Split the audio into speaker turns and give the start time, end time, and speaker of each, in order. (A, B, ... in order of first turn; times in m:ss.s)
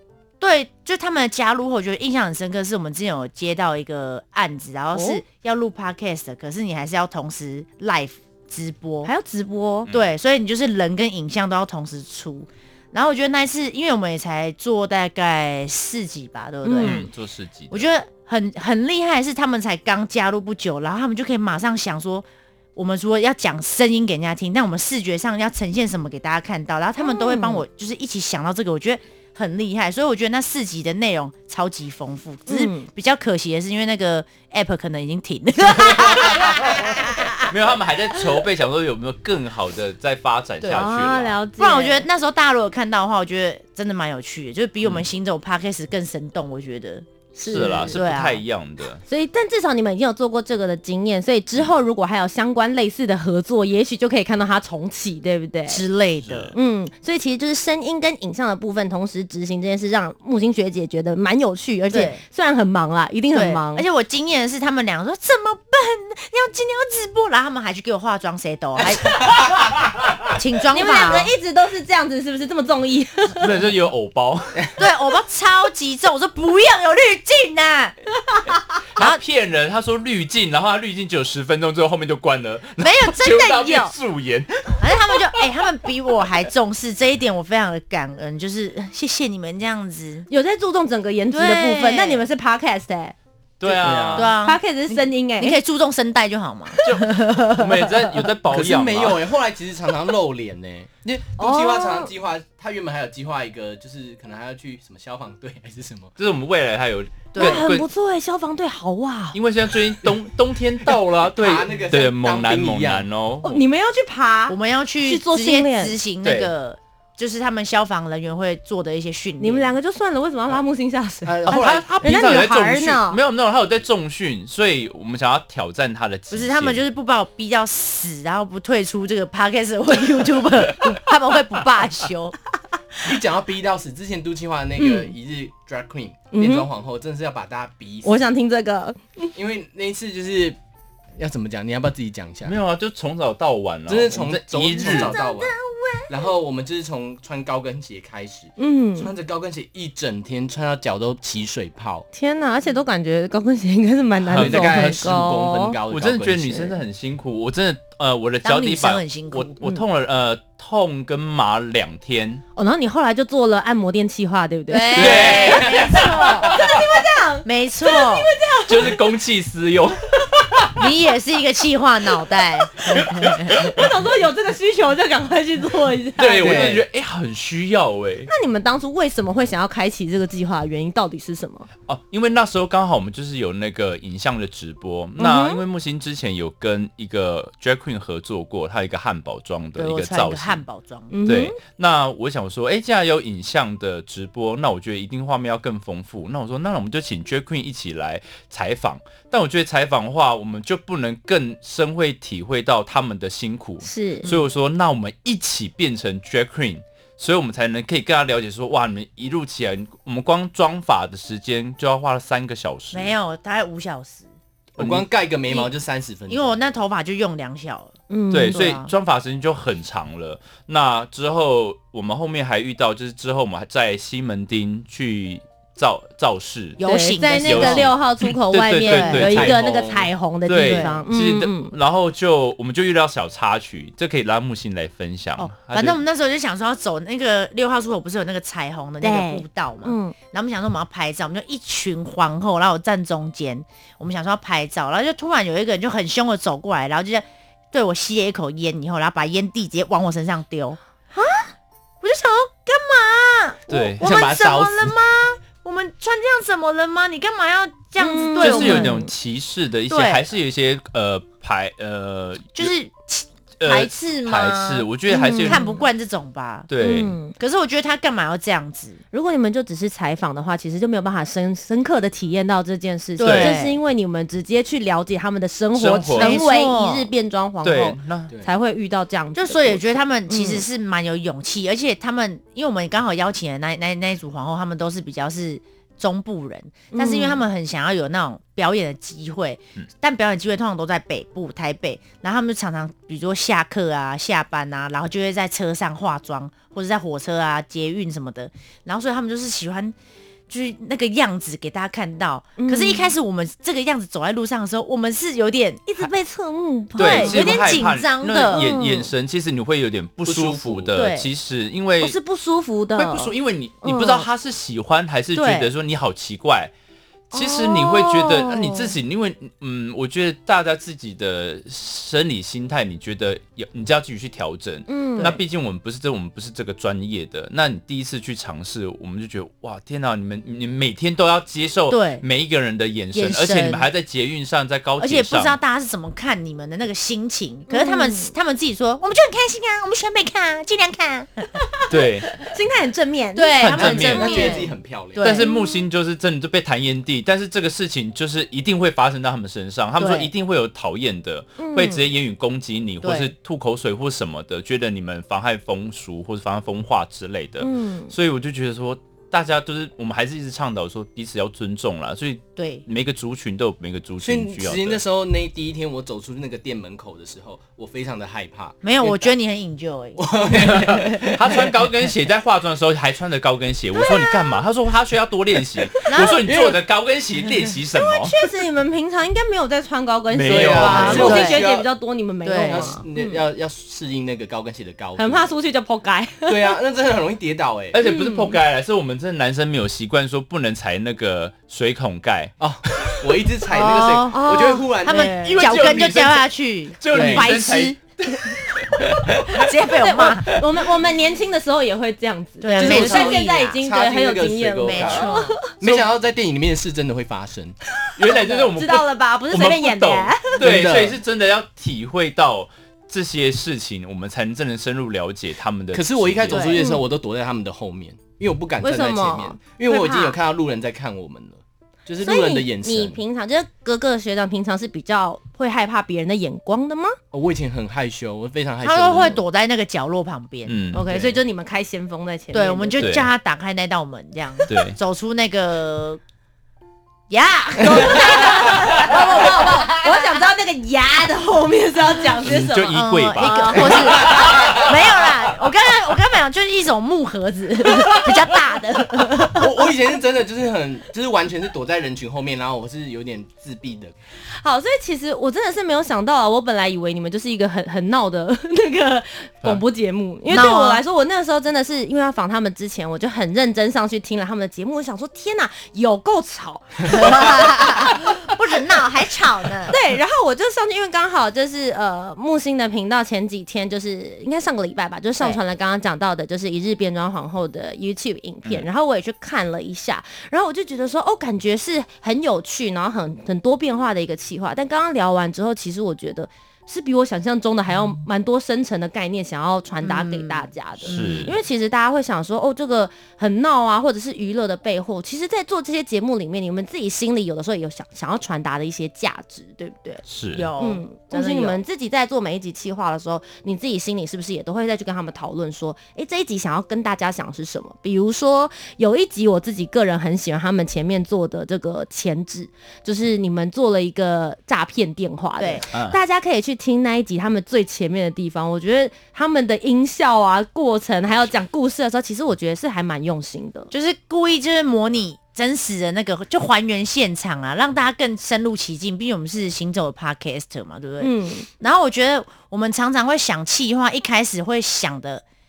0:00.4-0:09.1 A
0:04.9-0:05.2 B
0:09.0-0:09.9 B
0:09.9-0:17.1 A
0:16.6-0:17.0 B
0:16.8-0:17.9 C
0:17.7-0:37.6 A
0:27.0-0:27.6 B
0:32.5-0:32.9 B
0:35.9-0:41.4 C
0:40.7-0:42.1 B
0:41.6-0:47.1 A
0:44.8-0:45.1 C
0:47.4-0:48.0 B
0:47.4-0:49.0 C
0:47.6-0:48.4 A
0:49.1-0:55.8 B
0:55.7-0:56.6 A
0:56.2-0:56.6 C
0:56.6-1:03.8 B
1:01.9-1:02.2 A
1:03.3-1:09.5 A
1:08.8-1:09.5 D
1:10.4-1:11.3 A
1:10.7-1:13.5 B
1:13.4-1:14.6 C
1:14.8-1:18.0 A
1:19.0-1:24.9 C
1:19.0-1:19.2 A
1:22.8-1:24.0 A
1:24.8-1:30.3 A
1:30.3-1:33.2 B
1:31.3-1:32.3 A
1:33.6-1:34.3 C
1:33.7-1:34.3 D
1:34.1-1:34.6 A
1:34.4-1:35.6 B
1:35.4-1:36.8 A
1:36.8-1:37.8 B
1:36.8-1:39.3 C
1:38.5-1:46.1 D
1:41.4-1:42.1 B
1:46.2-1:47.9 C
1:47.3-1:47.7 A
1:47.4-1:49.4 B
1:49.3-1:53.6 C
1:51.2-1:53.1 D
1:53.4-1:56.0 B
1:54.5-1:59.7 A
1:56.2-1:56.5 C
1:59.4-2:03.2 B
2:01.2-2:02.1 D
2:01.5-2:06.8 C
2:06.3-2:12.4 A
2:13.0-2:18.2 D
2:14.8-2:15.1 B
2:16.3-2:16.7 B
2:18.0-2:19.3 B
2:19.4-2:20.6 D
2:21.2-2:22.6 D
2:22.4-2:25.2 C
2:23.9-2:25.6 D
2:26.1-2:32.1 D
2:28.6-2:29.1 B
2:32.1-2:35.8 B
2:34.3-2:35.1 C
2:34.3-2:36.8 D
2:35.9-2:42.4 C
2:38.4-2:39.5 A
2:42.6-2:48.9 B
2:44.7-2:46.6 A
2:44.9-2:46.8 C
2:45.0-2:45.8 D
2:47.4-2:48.3 A
2:48.7-2:50.9 C
2:50.8-2:53.6 A
2:52.8-2:53.9 C
2:53.5-2:56.8 B
2:56.2-2:58.3 C
2:56.4-2:56.8 A
2:58.3-3:01.7 B
3:01.9-3:10.6 C
3:05.2-3:05.6 B
3:09.8-3:11.1 A
3:11.1-3:11.6 B
3:11.3-3:33.1 C
3:23.8-3:24.3 B
3:32.9-3:34.3 A
3:34.8-3:36.6 D
3:34.8-3:35.0 C
3:36.3-3:38.0 A
3:38.1-3:38.6 B
3:38.3-3:46.8 C
3:38.5-3:38.9 A
3:46.8-3:47.9 A
3:46.8-3:51.7 B
3:47.4-3:49.6 C
3:48.9-3:50.1 D
3:48.9-3:49.2 A
3:50.5-3:56.0 C
3:50.6-3:51.0 A
3:55.4-4:11.4 A
3:59.0-4:00.2 B
4:12.0-4:19.0 A
4:13.7-4:14.0 C
4:14.0-4:14.9 D
4:18.0-4:19.1 B
4:18.4-4:22.7 C
4:19.9-4:20.2 A
4:22.6-4:26.7 A
4:23.6-4:25.6 C
4:25.1-4:25.8 B
4:26.7-4:27.2 C
4:26.8-4:27.3 B
4:27.4-4:29.0 A
4:29.1-4:40.6 B
4:33.2-4:33.8 A
4:33.2-4:33.6 C
4:35.8-4:36.4 C
4:36.2-4:37.1 A
4:37.6-4:38.3 C
4:39.4-5:00.0 A
4:46.9-4:47.4 B
5:00.5-5:06.1 A
5:02.6-5:03.1 B
5:05.9-5:07.8 B
5:07.0-5:12.2 C
5:07.0-5:08.7 A
5:08.5-5:09.1 B
5:10.3-5:10.9 D
5:10.9-5:11.3 A
5:12.0-5:14.3 B
5:13.0-5:16.7 C
5:15.4-5:15.7 A
5:17.3-5:19.0 B
5:17.3-5:35.6 C
5:24.9-5:25.4 B
5:31.9-5:32.2 A
5:33.1-5:33.9 A
5:35.0-5:41.8 A
5:37.7-5:38.3 B
5:41.9-5:42.3 C
5:42.4-5:44.7 B
5:43.4-5:45.5 A
5:43.6-5:44.5 C
5:43.8-5:45.3 D
5:45.2-6:05.0 C
5:45.4-5:45.8 B
5:50.0-5:50.3 A
5:51.6-5:52.1 B
5:53.0-5:53.3 A
5:57.6-5:58.1 B
6:02.6-6:02.8 A
6:04.2-6:09.3 D
6:08.8-6:10.2 A
6:10.2-6:11.8 D
6:10.6-6:18.3 C
6:16.1-6:16.5 A
6:16.4-6:16.8 D
6:18.0-6:23.4 B
6:20.3-6:21.9 D
6:20.4-6:21.6 C
6:20.8-6:21.6 A
6:22.4-6:23.0 A
6:22.6-6:25.5 D
6:25.2-6:26.8 B
6:26.5-6:28.0 D
6:27.9-6:32.5 C
6:28.0-6:28.6 B
6:32.6-6:35.8 D
6:33.7-6:38.0 A
6:34.3-6:35.5 B
6:35.4-6:36.5 C
6:37.0-6:39.7 C
6:37.1-6:37.5 D
6:39.6-6:40.6 A
6:40.0-6:45.7 B
6:42.6-6:43.8 A
6:42.8-6:47.8 D
6:44.8-6:45.6 A
6:45.8-6:46.1 C
6:48.2-6:56.8 C
6:48.8-6:50.6 B
6:50.6-6:51.2 D
6:55.9-7:03.2 D
6:56.5-6:56.9 A
6:58.8-7:00.1 B
6:59.9-7:00.4 A
7:02.2-7:07.2 B
7:07.3-7:09.4 D
7:08.8-7:11.2 A
7:10.7-7:11.0 C
7:10.9-7:13.1 B
7:12.5-7:16.2 A
7:13.0-7:13.3 C
7:14.7-7:15.0 C
7:17.3-7:20.4 A
7:17.8-7:24.4 B
7:22.4-7:24.6 C
7:22.9-7:29.6 A
7:24.2-7:24.9 D
7:28.1-7:29.5 B
7:29.4-7:34.1 D
7:34.6-7:48.2 B
7:40.5-7:40.7 C
7:40.5-7:41.0 A
7:47.1-7:50.0 A
7:49.9-8:20.2 B
8:10.0-8:11.5 A
8:11.1-8:11.6 C
8:20.3-8:20.7 C
8:20.5-8:21.8 A
8:20.8-8:43.9 B
8:35.6-8:35.8 A
8:43.9-8:55.4 A
8:51.2-8:51.7 B